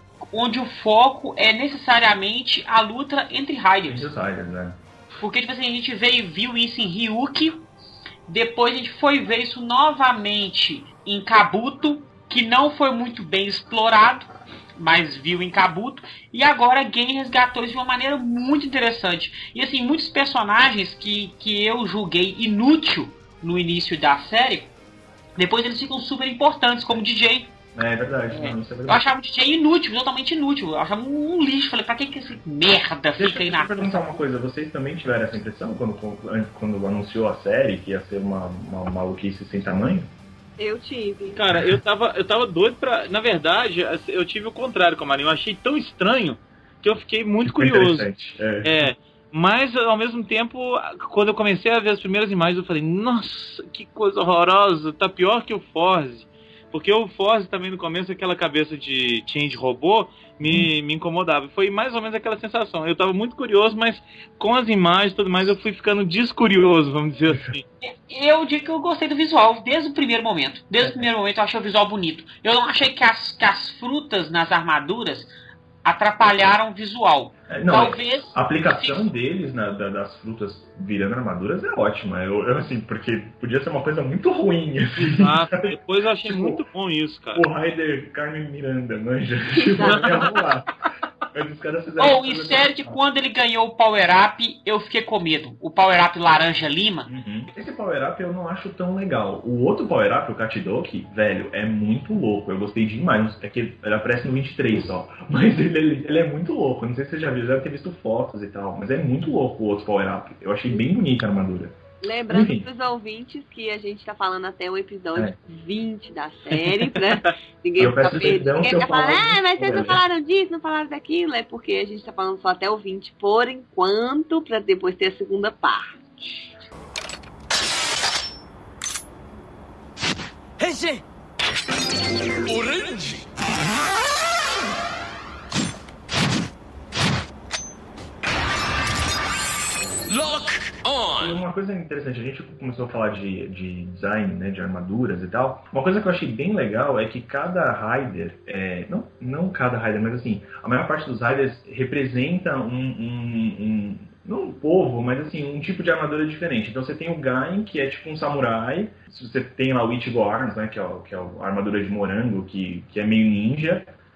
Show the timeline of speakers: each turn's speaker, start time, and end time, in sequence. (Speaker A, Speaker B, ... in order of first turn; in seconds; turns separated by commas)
Speaker A: 0.3-4.1, Speaker B: 3.9-4.8, Speaker A: 5.2-7.7, Speaker A: 8.3-24.7, Speaker A: 25.4-27.5, Speaker B: 27.7-29.0, Speaker A: 28.3-34.2, Speaker B: 33.2-40.1, Speaker C: 40.6-41.4, Speaker D: 41.3-48.1, Speaker B: 47.4-48.9, Speaker D: 48.6-67.6, Speaker A: 67.8-75.3, Speaker A: 75.8-79.1, Speaker B: 77.5-86.6, Speaker D: 85.0-87.5, Speaker B: 87.3-90.8, Speaker C: 89.5-90.5, Speaker D: 89.9-90.2, Speaker B: 91.3-93.0, Speaker A: 92.0-97.1, Speaker B: 97.0-111.8, Speaker C: 112.0-125.9, Speaker B: 112.3-112.7, Speaker D: 116.8-117.3, Speaker B: 117.8-120.0, Speaker E: 130.6-131.0, Speaker E: 132.4-133.2, Speaker E: 140.1-141.4, Speaker B: 141.2-163.8